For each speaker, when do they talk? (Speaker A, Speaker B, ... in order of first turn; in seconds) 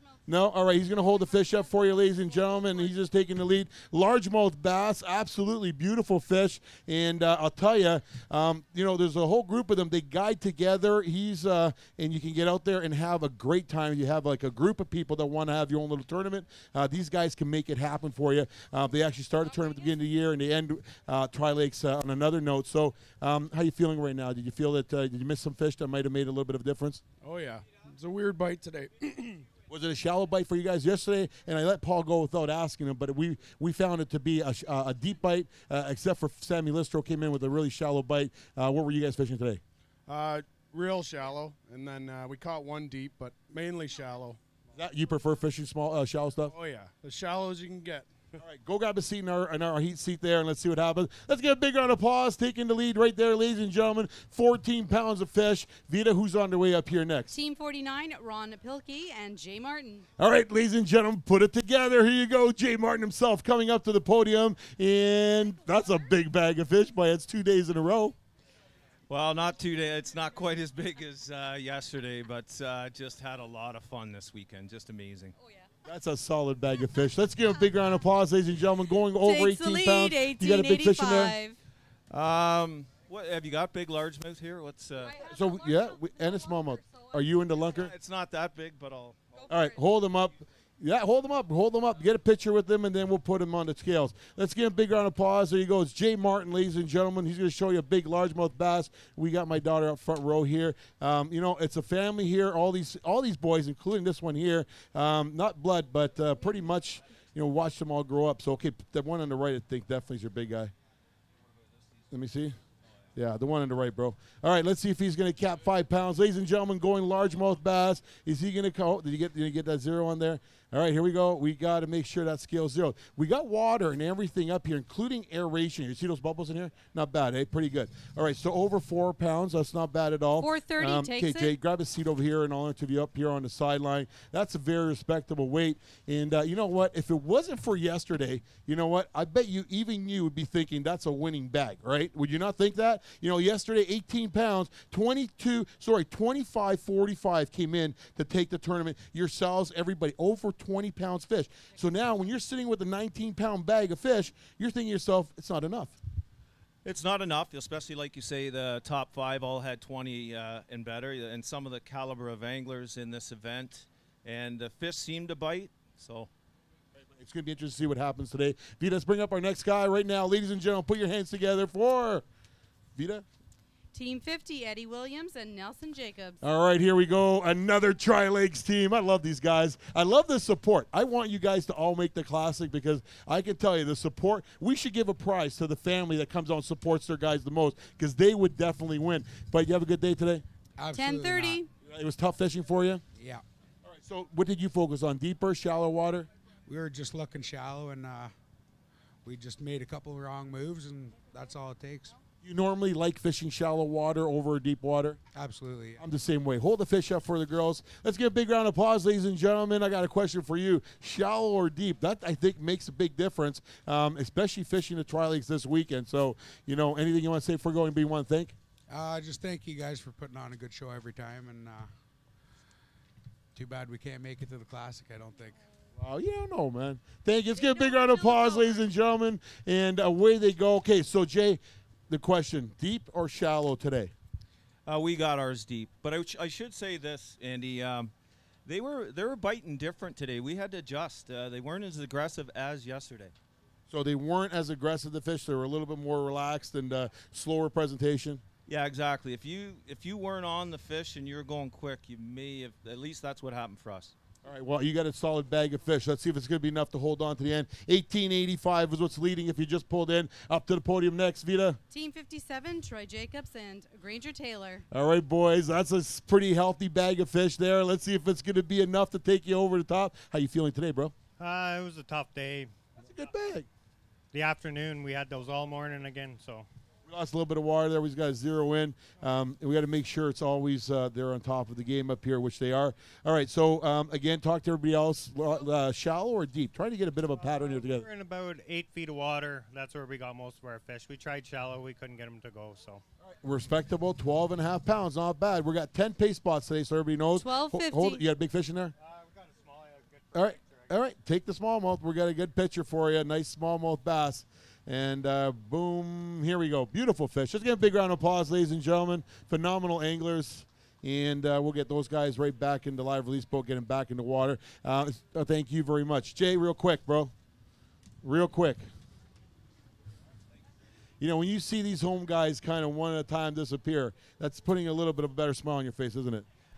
Speaker A: 0.3-27.0, 29.7-39.6, 44.8-46.5, 48.4-57.4, 60.2-68.2, 75.8-81.3, 85.2-87.9, 89.5-110.7, 112.1-112.6, 113.2-156.0, 166.9-172.2, 173.0-173.2, 176.4-190.4, 191.8-193.0, 193.8-196.3, 202.4-205.2, 206.0-218.6, 225.9-234.1, 243.9-248.4, 254.4-261.8, 264.9-271.1, 273.1-273.7, 277.1-288.1, 293.2-298.9, 300.3-317.3, 318.2-318.9, 321.2-326.5
Speaker B: 27.2-29.4, 40.1-44.4, 46.5-48.2
Speaker C: 57.3-60.1, 79.2-81.6, 130.4-131.5, 173.9-176.4, 190.9-191.7, 227.6-228.8, 261.9-264.9, 297.4-298.2
Speaker D: 69.1-75.4, 82.1-85.2, 87.7-89.5, 156.8-166.3, 234.9-238.1, 238.7-243.3, 248.7-254.2
Speaker E: 190.8-191.6, 193.2-193.4, 196.7-198.3, 199.2-202.2, 205.3-206.0, 218.9-221.9, 223.6-225.6
Speaker F: 271.4-272.9, 274.3-276.7, 287.4-293.0, 299.0-300.9